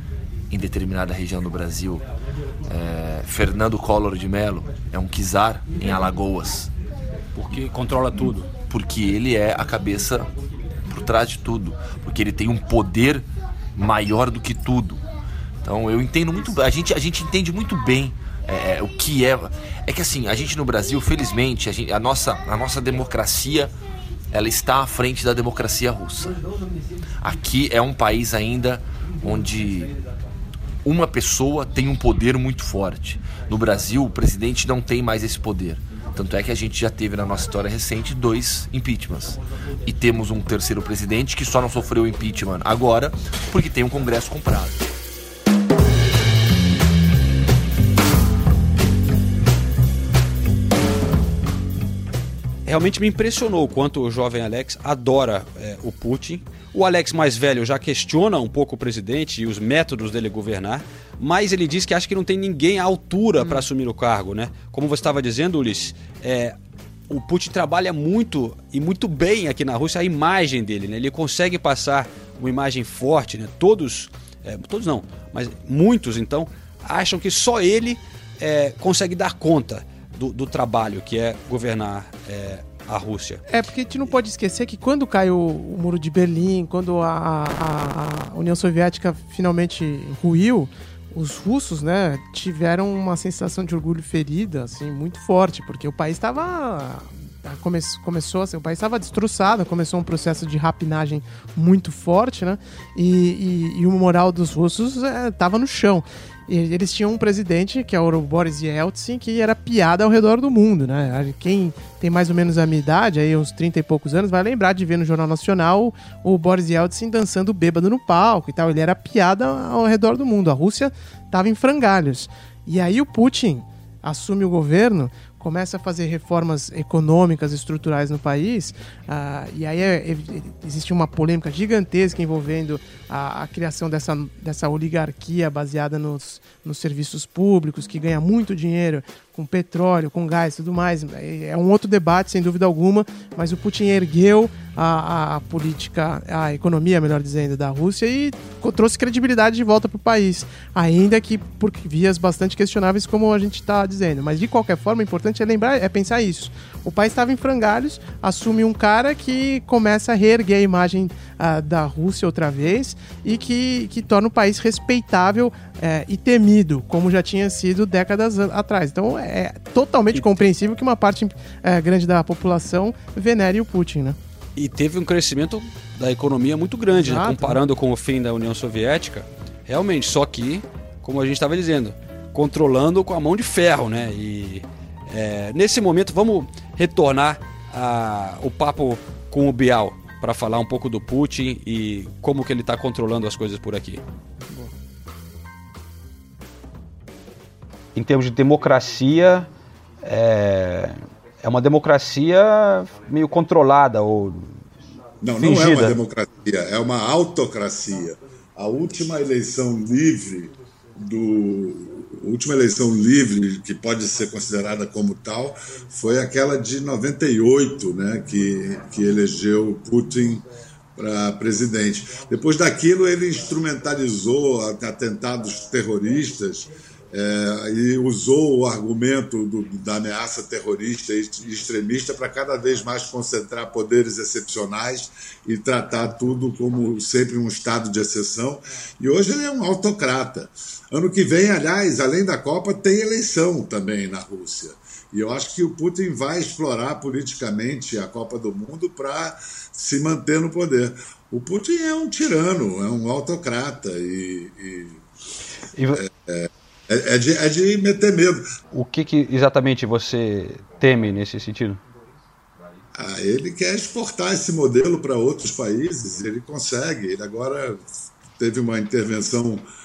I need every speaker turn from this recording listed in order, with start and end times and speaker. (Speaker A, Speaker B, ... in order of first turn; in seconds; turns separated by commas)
Speaker A: 0.5-2.0, Speaker A: 2.6-6.7, Speaker B: 7.3-8.5, Speaker A: 8.7-10.3, Speaker A: 10.8-15.0, Speaker A: 15.6-23.7, Speaker A: 24.3-26.4, Speaker A: 27.2-29.9, Speaker A: 30.8-44.8, Speaker B: 52.6-66.5, Speaker B: 67.1-83.4, Speaker C: 83.5-174.2, Speaker B: 170.1-170.4, Speaker B: 174.6-194.0, Speaker C: 176.9-177.6, Speaker B: 197.9-199.5, Speaker B: 200.0-204.6, Speaker D: 205.2-220.4, Speaker B: 205.4-206.0, Speaker D: 220.9-255.0, Speaker B: 255.7-256.0, Speaker D: 255.9-258.4, Speaker B: 258.7-261.8, Speaker D: 262.9-267.8, Speaker D: 268.4-269.6